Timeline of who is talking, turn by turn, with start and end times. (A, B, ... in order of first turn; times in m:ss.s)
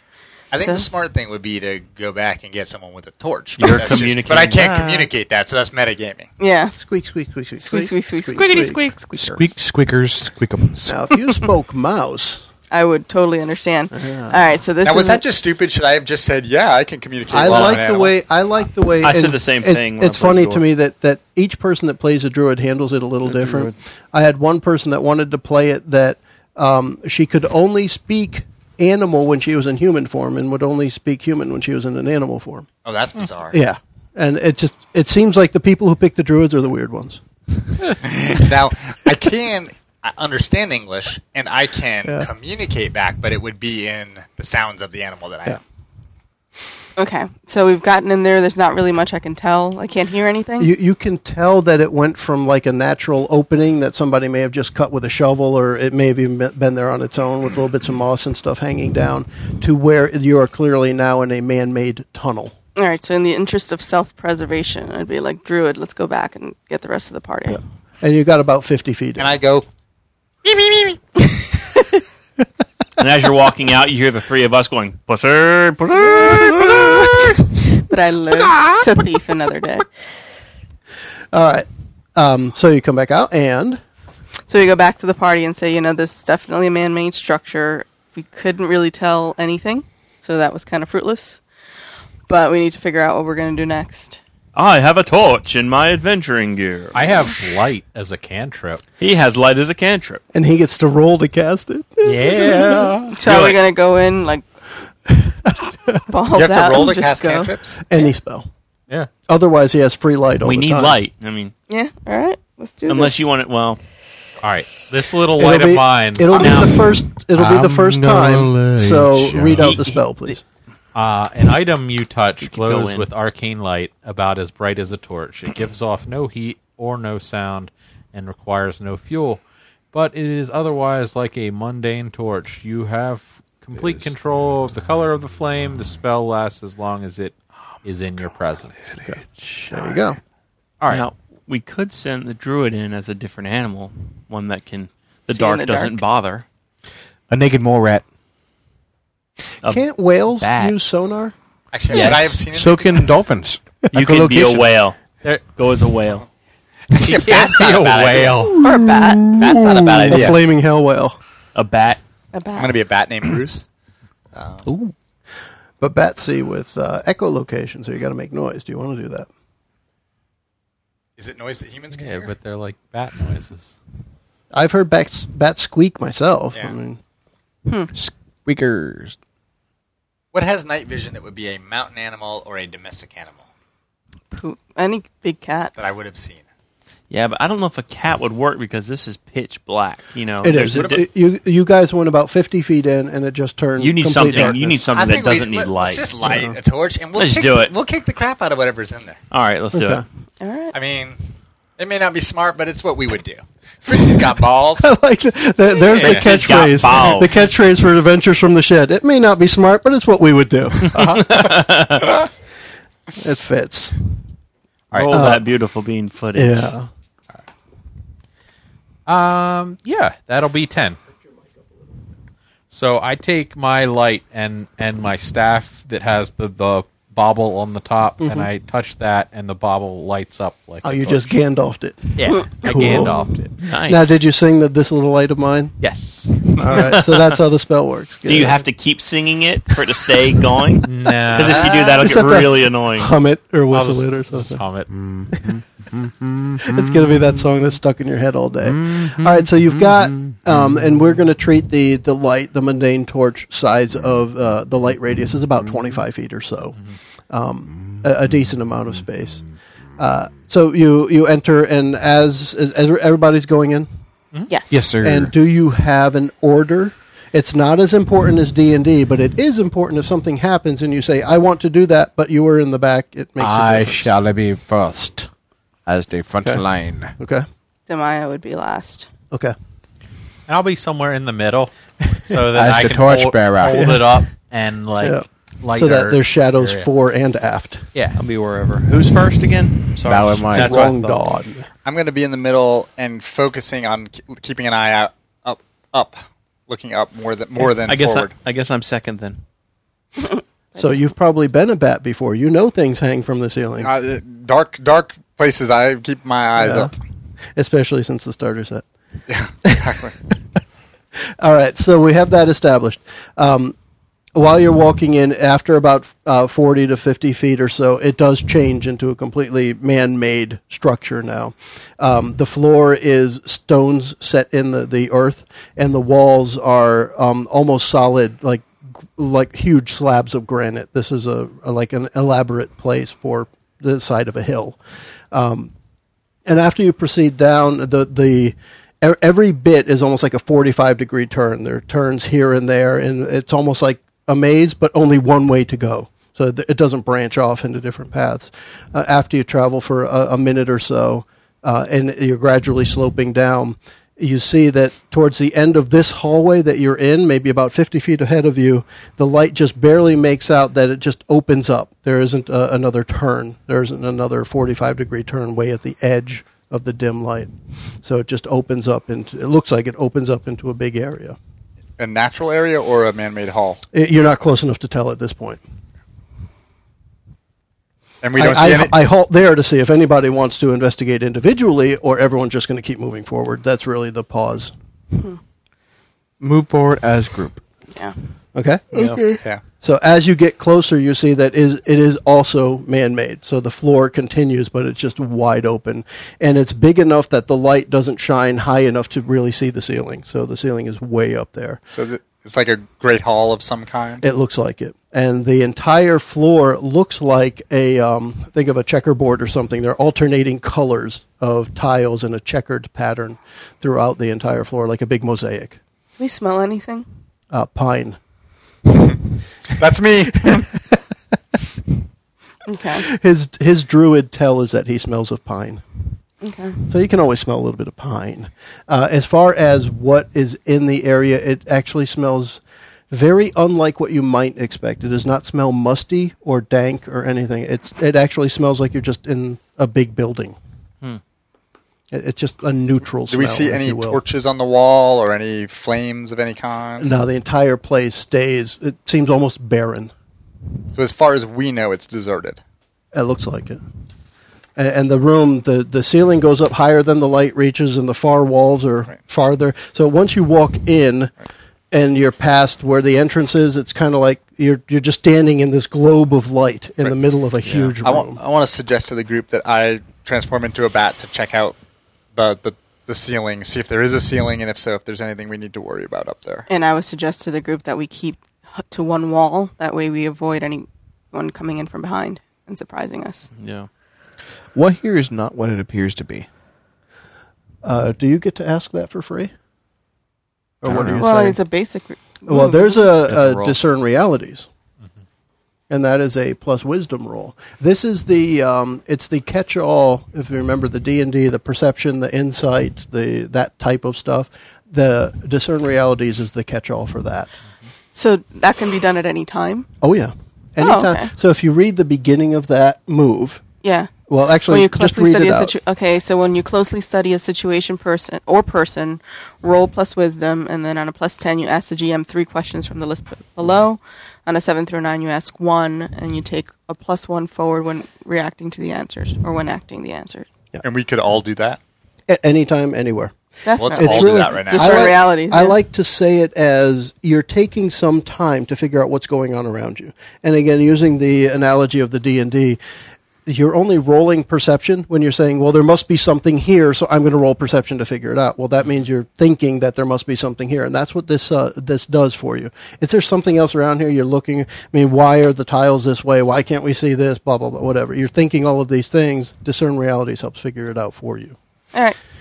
0:00.5-0:06.3 A
0:00.6-0:00.9 B
0:03.6-0:05.1 C
0:06.4-0:06.8 B
0:06.8-0:08.8 D
0:07.6-0:08.8 B
0:08.3-0:09.5 C
0:09.1-0:11.2 E
0:10.8-0:12.4 D
0:12.7-0:15.2 B
0:13.9-0:14.4 D
0:14.8-0:18.1 A
0:17.3-0:32.7 D
0:17.5-0:17.8 C
0:19.0-0:20.6 C
0:23.3-0:23.7 E
0:32.8-0:33.6 A
0:33.5-0:37.2 D
0:38.0-0:45.6 A
0:47.0-0:50.7 B
0:50.6-1:02.5 D
1:02.8-1:07.6 B
1:07.5-1:09.4 D
1:09.2-1:09.7 A
1:10.5-1:11.0 A
1:11.2-1:11.8 B
1:13.0-1:17.4 C
1:17.7-1:19.9 B
1:21.3-1:23.8 D
1:24.5-1:31.4 B
1:32.3-1:34.2 B
1:34.6-1:37.3 C
1:36.9-1:38.8 F
1:39.0-1:40.2 C
1:40.3-1:42.9 D
1:42.0-1:43.2 F
1:43.1-1:44.4 B
1:43.2-1:43.6 C
1:45.1-1:46.0 D
1:46.1-1:47.6 B
1:46.3-1:47.8 A
1:47.9-1:48.5 D
1:49.3-1:51.0 D
1:50.4-1:51.5 C
1:51.7-1:53.3 B
1:52.9-1:53.8 C
1:54.4-1:56.7 F
1:55.4-2:00.4 D
1:57.4-1:59.8 E
1:59.6-2:00.0 C
2:01.0-2:09.4 F
2:02.4-2:03.1 C
2:09.9-2:18.9 F
2:19.0-2:19.8 E
2:19.0-2:20.2 D
2:20.8-2:21.1 F
2:20.9-2:26.4 C
2:25.3-2:26.0 B
2:27.3-2:28.0 E
2:29.6-2:30.8 C
2:29.6-2:31.3 D
2:31.7-2:33.1 A
2:31.9-2:32.4 C
2:32.0-2:34.8 E
2:33.9-2:36.2 C
2:36.9-2:38.4 A
2:37.0-2:38.6 F
2:38.6-2:39.4 B
2:38.6-2:41.2 D
2:39.4-2:40.4 A
2:39.4-2:40.4 C
2:41.6-2:42.0 C
2:42.3-2:42.8 B
2:42.6-2:43.6 A
2:44.3-2:44.7 A
2:44.7-2:44.9 E
2:45.8-2:49.3 D
2:51.2-2:52.3 A
2:51.9-2:53.7 F
2:54.5-2:57.0 D
2:57.7-2:57.9 B
2:57.9-2:59.2 E
3:00.3-3:03.4 A
3:04.3-3:05.7 B
3:05.8-3:06.4 A
3:07.1-3:11.0 C
3:10.4-3:14.9 D
3:10.5-3:11.0 A
3:13.8-3:16.1 C
3:14.3-3:19.2 A
3:16.2-3:16.6 D
3:17.2-3:17.7 C
3:19.3-3:20.0 C
3:19.7-3:20.0 D
3:20.4-3:20.7 B
3:20.7-3:21.2 A
3:21.8-3:24.9 A
3:24.8-3:31.2 D
3:25.9-3:27.4 C
3:26.0-3:26.3 F
3:30.8-3:32.3 C
3:30.9-3:31.2 F
3:33.2-3:34.0 D
3:34.9-3:35.3 F
3:34.9-3:36.7 C
3:35.1-3:35.5 D
3:36.3-3:36.9 D
3:39.1-3:41.0 F
3:42.7-3:51.3 F
3:48.2-3:48.5 D
3:50.8-3:53.2 D
3:52.2-3:54.1 C
3:52.3-3:53.1 B
3:52.6-3:53.5 F
3:53.8-3:55.8 D
3:55.8-3:57.4 C
3:56.6-3:58.7 D
3:58.3-4:03.1 C
4:00.8-4:01.8 F
4:01.6-4:02.0 A
4:01.6-4:04.6 D
4:03.7-4:04.9 F
4:04.9-4:07.1 E
4:06.6-4:16.8 D
4:08.7-4:10.8 E
4:17.3-4:19.4 D
4:20.0-4:23.9 D
4:24.5-4:24.9 B
4:24.7-4:25.3 E
4:25.0-4:34.1 D
4:33.4-4:35.3 E
4:35.9-4:37.1 E
4:37.2-4:37.5 D
4:37.9-4:39.1 B
4:40.5-4:41.7 F
4:42.2-4:46.9 F
4:42.5-4:44.0 E
4:43.7-4:44.0 D
4:45.0-4:47.9 D
4:47.9-4:48.2 F
4:48.2-4:51.3 C
4:50.0-4:50.9 E
4:50.5-4:51.7 D
4:51.8-4:58.3 A
4:57.6-4:59.4 C
5:00.3-5:00.8 B
5:00.8-5:04.0 D
5:03.8-5:06.9 A
5:06.6-5:06.9 D
5:07.6-5:08.8 D
5:09.3-5:10.2 A
5:09.6-5:10.3 D
5:11.4-5:13.8 D
5:14.4-5:34.8 D
5:35.3-5:35.7 D
5:36.5-6:07.5 D
6:08.0-6:11.4 D
6:12.0-6:13.8 A
6:13.9-6:15.6 D
6:18.2-6:18.9 A
6:18.4-6:24.7 D
6:26.4-6:27.6 E
6:28.6-6:41.8 D
6:41.9-6:44.2 A
6:44.2-6:55.8 D
6:56.2-6:57.1 B
6:57.5-6:58.2 D
6:59.8-7:00.7 A
7:00.3-7:01.0 D
7:02.7-7:03.0 B
7:02.9-7:05.8 D
7:06.4-7:06.8 B
7:06.9-7:20.6 D
7:22.1-7:24.2 D
7:23.3-7:27.1 A
7:27.0-7:30.1 D
7:30.9-7:32.6 A
7:33.1-7:33.8 D
7:34.8-7:41.3 D
7:41.9-7:48.4 D
7:48.0-7:51.8 A
7:52.4-7:56.7 A
7:56.7-8:03.5 B
8:03.5-8:03.9 C
8:04.8-8:06.5 E
8:07.8-8:09.5 D
8:10.8-8:11.6 D
8:10.9-8:11.2 E
8:11.2-8:13.2 B
8:12.5-8:14.7 D
8:13.3-8:13.8 C
8:15.9-8:27.5 D
8:28.1-8:29.9 B
8:30.0-8:33.6 D
8:30.8-8:31.3 B
8:33.8-8:34.1 B
8:34.3-8:35.8 D
8:34.7-8:50.5 B
8:50.8-8:51.8 A
8:52.3-8:53.3 D
8:53.6-8:55.8 B
8:53.8-8:55.2 A
8:53.9-9:02.8 D
9:03.5-9:21.6 D